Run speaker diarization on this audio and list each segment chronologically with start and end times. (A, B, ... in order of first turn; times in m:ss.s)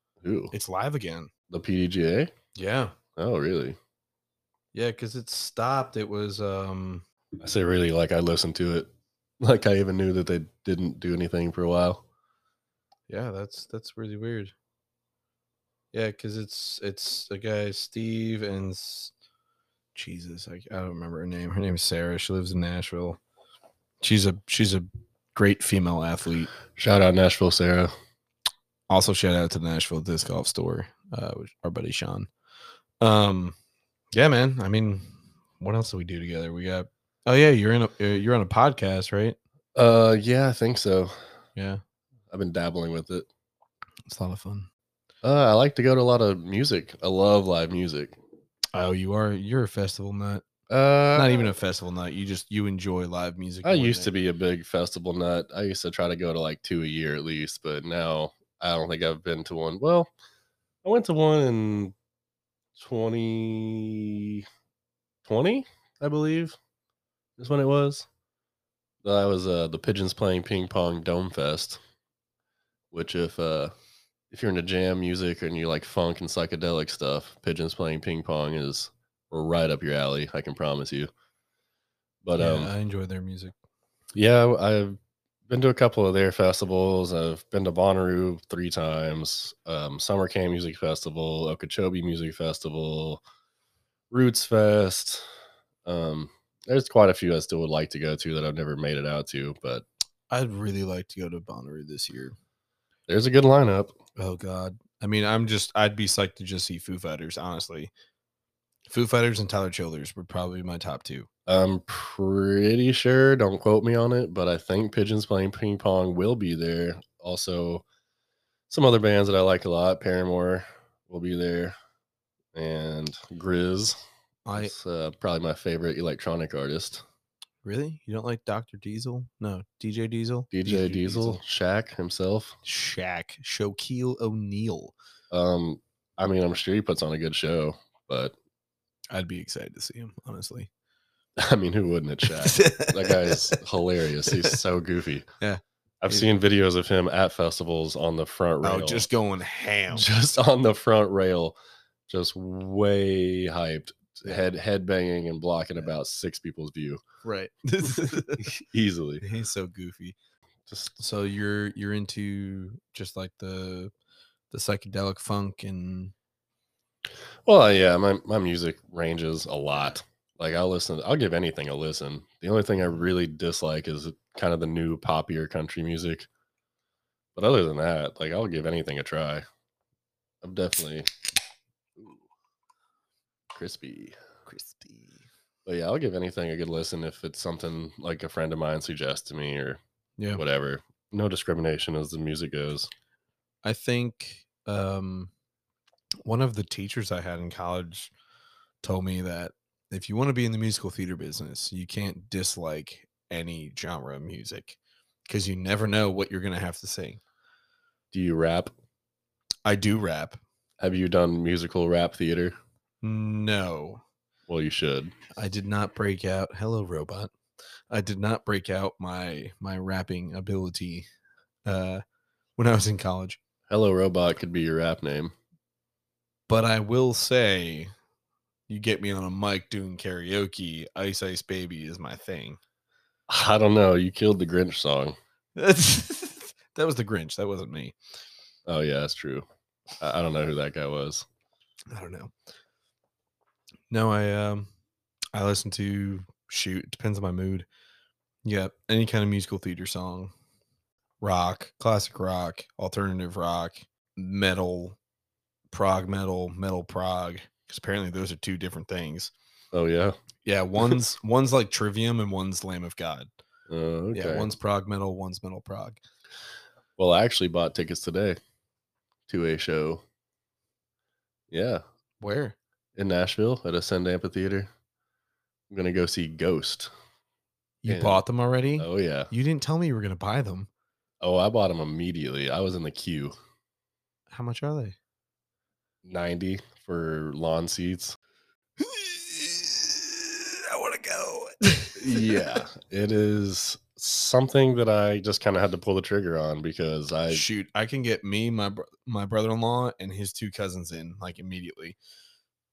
0:00.2-0:00.5 A
0:00.5-0:01.3 B
0:01.5-0:02.3 A
0:02.6-0:03.0 B
0:03.2-0:03.8 A
0:04.7-0:07.0 B
0:07.4-0:08.9 A
0:09.4-0:12.0 A
0:13.1-0:14.5 B
0:15.9-0:19.1 B
0:20.0-0:23.2 B
0:24.0-0:26.5 B
0:26.8-0:27.9 A
0:28.9-0:32.3 B
0:33.0-0:33.6 B
0:34.1-0:39.4 B
0:39.8-0:41.1 A
0:41.6-0:41.8 B
0:42.3-0:43.3 A
0:44.1-0:44.7 B
0:45.2-0:48.2 A
0:48.7-0:50.4 B
0:50.7-0:51.5 A
0:51.2-0:54.1 B
0:53.6-1:00.1 A
1:00.8-1:01.9 A
1:02.8-1:04.4 A
1:05.3-1:06.6 A
1:07.4-1:08.1 A
1:09.0-1:11.8 A
1:12.9-1:13.7 A
1:14.3-1:21.1 A
1:22.2-1:22.7 A
1:22.4-1:23.5 B
1:24.2-1:25.0 A
1:25.5-1:33.2 A
1:34.1-1:35.3 A
1:35.8-1:39.8 A
1:40.3-1:42.4 B
1:43.1-1:44.0 A
1:44.2-1:47.9 B
1:48.9-1:51.3 B
1:51.5-1:57.8 A
1:58.7-2:01.8 A
2:02.5-2:04.0 A
2:04.5-2:04.8 B
2:04.6-2:07.0 A
2:07.6-2:11.4 B
2:10.5-2:12.6 A
2:12.6-2:14.9 B
2:15.3-2:18.3 A
2:19.1-2:20.7 B
2:21.4-2:25.3 A
2:22.3-2:23.6 B
2:24.3-2:24.6 B
2:25.4-2:26.3 B
2:26.0-2:29.1 A
2:28.6-2:30.1 B
2:29.9-2:31.6 A
2:32.1-2:37.0 A
2:37.2-2:38.6 B
2:37.9-2:39.2 A
2:39.2-2:40.2 B
2:40.7-2:40.9 A
2:41.0-2:43.9 B
2:44.5-2:46.1 B
2:47.5-2:56.3 A
2:57.4-2:59.4 A
3:00.4-3:01.1 A
3:03.5-3:04.2 A
3:04.5-3:05.2 B
3:05.7-3:09.8 A
3:10.4-3:12.9 A
3:13.6-3:15.3 B
3:16.2-3:18.1 B
3:18.8-3:27.2 B
3:28.1-3:28.7 A
3:29.6-3:30.4 B
3:30.8-3:32.6 A
3:33.0-3:34.0 B
3:34.5-3:35.1 A
3:35.3-3:37.3 B
3:37.9-3:41.1 B
3:41.7-3:42.0 B
3:42.6-3:43.4 B
3:43.7-3:45.3 A
3:46.5-3:47.9 B
3:48.7-3:52.6 B
3:53.3-3:55.2 A
3:55.6-3:58.0 B
3:58.7-3:59.5 A
4:00.0-4:01.3 A
4:01.9-4:02.3 B
4:03.9-4:04.7 B
4:05.3-4:07.7 B
4:08.4-4:10.3 B
4:11.2-4:15.0 B
4:15.7-4:19.3 B
4:19.7-4:20.2 A
4:20.4-4:23.3 B
4:23.7-4:24.5 A
4:24.1-4:26.0 B
4:27.0-4:28.4 A
4:29.3-4:30.0 A
4:31.5-4:31.8 A
4:32.2-4:32.6 B
4:33.0-4:34.7 A
4:35.7-4:36.9 A
4:37.8-4:40.7 B
4:37.9-4:38.2 A
4:38.8-4:39.3 A
4:41.2-4:43.4 A
4:44.3-4:45.0 B
4:46.0-4:48.2 A
4:48.8-4:52.7 B
4:52.0-4:57.4 A
4:57.3-5:02.0 B